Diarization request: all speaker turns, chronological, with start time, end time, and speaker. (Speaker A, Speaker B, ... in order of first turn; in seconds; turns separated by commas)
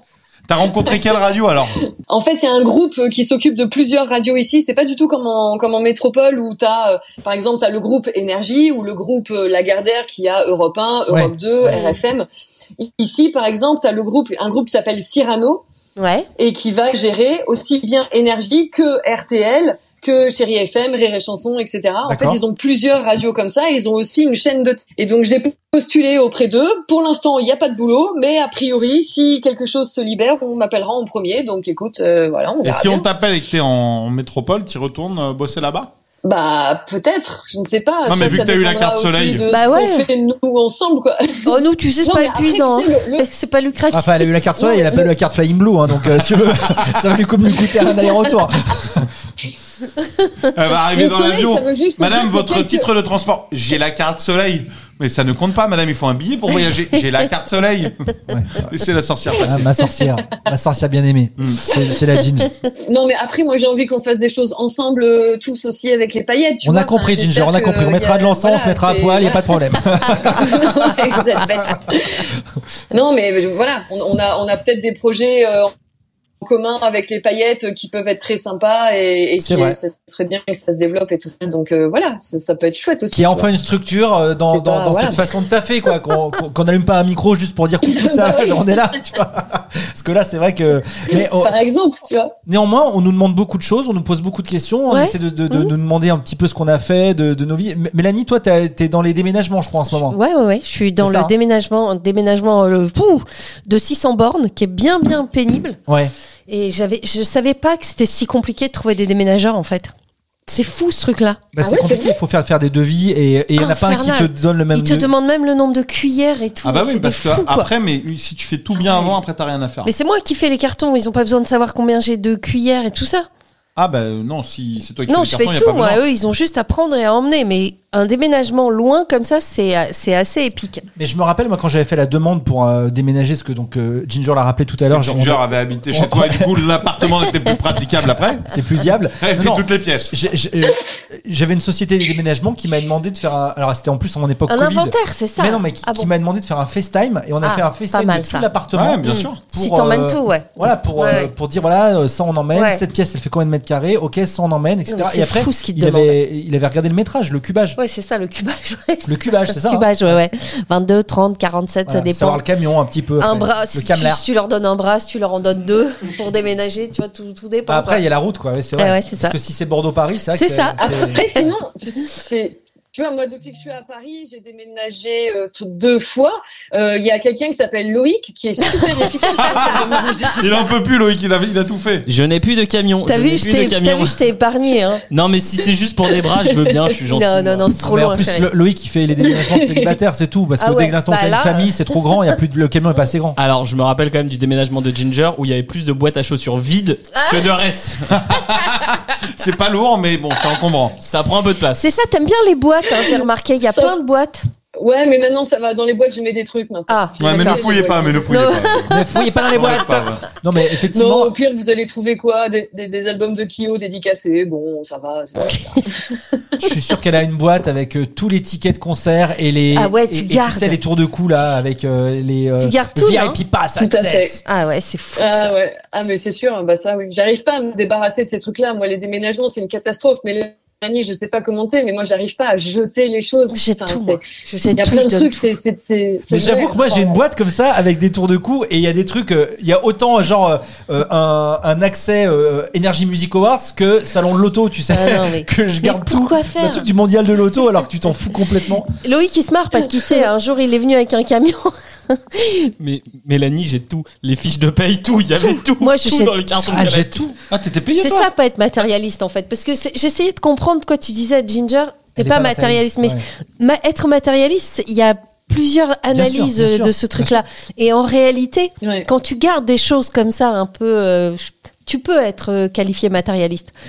Speaker A: 0.5-1.8, Speaker B: 0.8-1.1, Speaker B: 2.0-12.3, Speaker C: 11.1-11.9, Speaker B: 12.8-15.6, Speaker D: 16.0-16.3, Speaker B: 16.4-33.1, Speaker C: 22.1-22.4, Speaker A: 32.6-35.9, Speaker B: 36.2-43.3, Speaker A: 38.0-39.5, Speaker D: 39.5-40.1, Speaker D: 41.5-44.4, Speaker C: 43.9-49.1, Speaker B: 44.6-45.1, Speaker A: 46.7-47.0, Speaker A: 50.4-59.8, Speaker B: 50.9-52.9, Speaker C: 58.3-58.7, Speaker C: 59.4-62.5, Speaker A: 61.4-61.7, Speaker B: 62.9-72.3, Speaker C: 66.6-71.2, Speaker B: 72.9-75.7, Speaker B: 76.4-83.5, Speaker C: 79.4-79.8, Speaker C: 83.1-91.6, Speaker B: 84.5-85.3, Speaker B: 87.9-88.6, Speaker B: 91.1-92.3, Speaker C: 92.5-100.2, Speaker D: 94.9-95.7, Speaker D: 99.9-105.8, Speaker C: 101.0-101.3, Speaker C: 105.9-106.1, Speaker D: 106.5-109.9, Speaker D: 110.5-111.5, Speaker C: 111.5-115.1, Speaker B: 111.6-112.2, Speaker D: 113.6-117.7, Speaker A: 116.6-119.9, Speaker D: 119.8-123.3, Speaker A: 123.8-126.0, Speaker D: 125.1-130.9, Speaker C: 130.9-136.5, Speaker A: 134.9-138.5, Speaker C: 138.5-157.8, Speaker A: 139.2-140.1, Speaker D: 144.5-146.1, Speaker D: 147.4-148.5, Speaker A: 148.7-149.4, Speaker D: 149.0-151.3, Speaker D: 152.5-152.8, Speaker D: 154.9-156.2, Speaker D: 157.8-162.4, Speaker C: 159.1-160.2, Speaker C: 161.9-164.2, Speaker D: 163.2-168.0, Speaker C: 167.7-171.4, Speaker D: 168.8-169.3, Speaker D: 170.3-171.4, Speaker B: 170.8-180.7, Speaker A: 179.3-182.1, Speaker E: 182.1-184.2, Speaker D: 183.1-185.0, Speaker E: 185.1-187.7, Speaker D: 187.1-188.5, Speaker C: 187.8-193.4, Speaker B: 189.3-189.9, Speaker D: 190.6-191.8, Speaker E: 193.4-198.2, Speaker D: 197.1-197.5, Speaker A: 198.1-201.0, Speaker E: 201.0-201.8, Speaker D: 201.8-204.4, Speaker B: 203.0-203.9, Speaker B: 204.8-208.3, Speaker D: 206.9-207.7, Speaker A: 207.2-209.0, Speaker D: 208.3-209.3, Speaker C: 208.9-211.3, Speaker A: 209.5-210.2, Speaker B: 210.9-216.4, Speaker C: 216.6-224.4, Speaker D: 219.7-220.8, Speaker D: 222.6-223.4, Speaker B: 223.8-224.4, Speaker D: 224.4-225.5, Speaker B: 225.2-234.2, Speaker D: 233.5-235.6, Speaker B: 234.7-237.2, Speaker C: 236.3-248.9, Speaker D: 244.9-246.9, Speaker D: 249.0-252.7, Speaker E: 252.8-257.3, Speaker D: 255.8-256.4, Speaker C: 256.6-257.4, Speaker A: 257.5-258.3, Speaker D: 258.0-273.7, Speaker C: 262.2-263.2, Speaker C: 266.1-267.4, Speaker B: 268.8-269.1